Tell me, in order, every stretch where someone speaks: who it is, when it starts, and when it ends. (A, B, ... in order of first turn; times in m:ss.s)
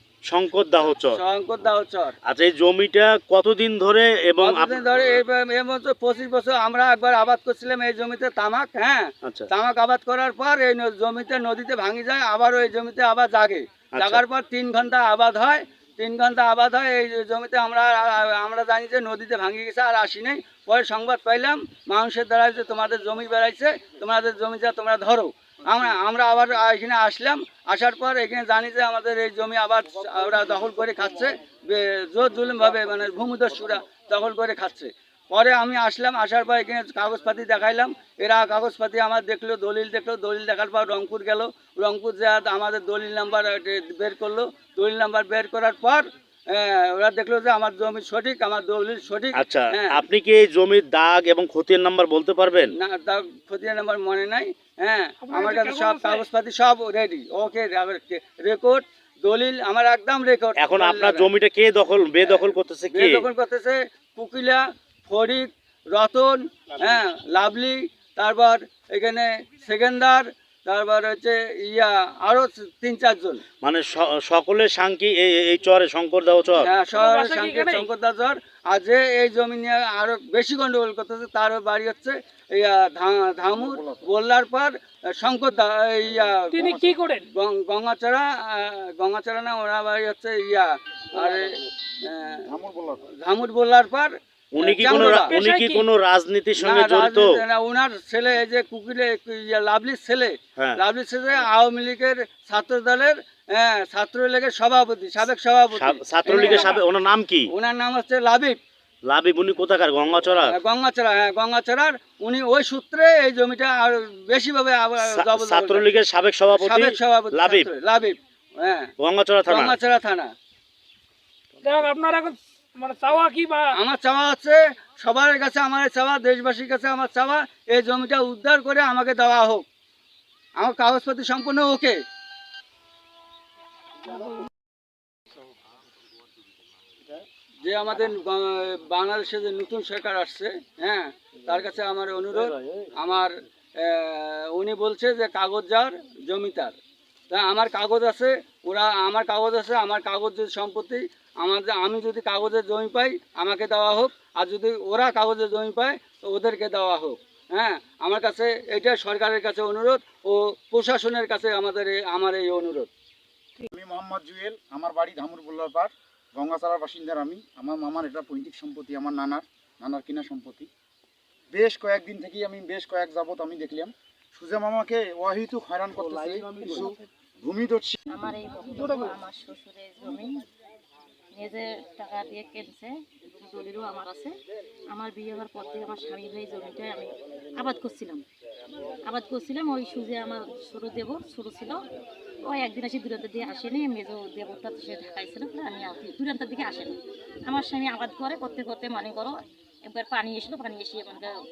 0:00.2-0:01.2 A
0:01.1-0:02.2 B
0:02.2-0:04.8 A
0:04.4-0:50.0 B
0:14.0-0:14.2 A
0:49.3-0:52.7 A
0:52.8-1:01.3 B
0:55.2-0:56.3 C
1:00.6-1:03.3 A
1:02.2-1:13.4 B
1:13.6-1:16.7 A
1:16.6-1:32.5 B
1:16.9-1:17.9 C
1:23.5-1:24.0 D
1:26.5-1:27.3 C
1:32.5-1:33.0 D
1:33.2-1:35.4 B
1:34.5-1:37.4 A
1:34.9-1:35.9 C
1:36.6-1:46.8 B
1:45.8-1:47.5 A
1:46.4-1:46.7 C
1:47.5-1:48.6 B
1:49.0-1:50.6 A
1:50.5-1:55.9 B
1:55.0-1:57.7 A
1:56.6-1:58.9 B
1:59.0-1:59.8 A
1:59.5-2:00.3 B
2:01.6-2:03.7 C
2:03.7-2:09.6 B
2:10.6-2:12.0 B
2:17.6-2:26.8 B
2:27.3-2:42.9 B
2:43.7-2:50.7 D
2:51.5-2:58.0 D
2:56.1-2:57.0 C
2:58.1-3:00.4 E
2:58.8-2:59.2 C
3:01.3-3:04.3 E
3:04.9-3:08.2 E
3:09.1-3:11.8 E
3:12.4-3:21.3 E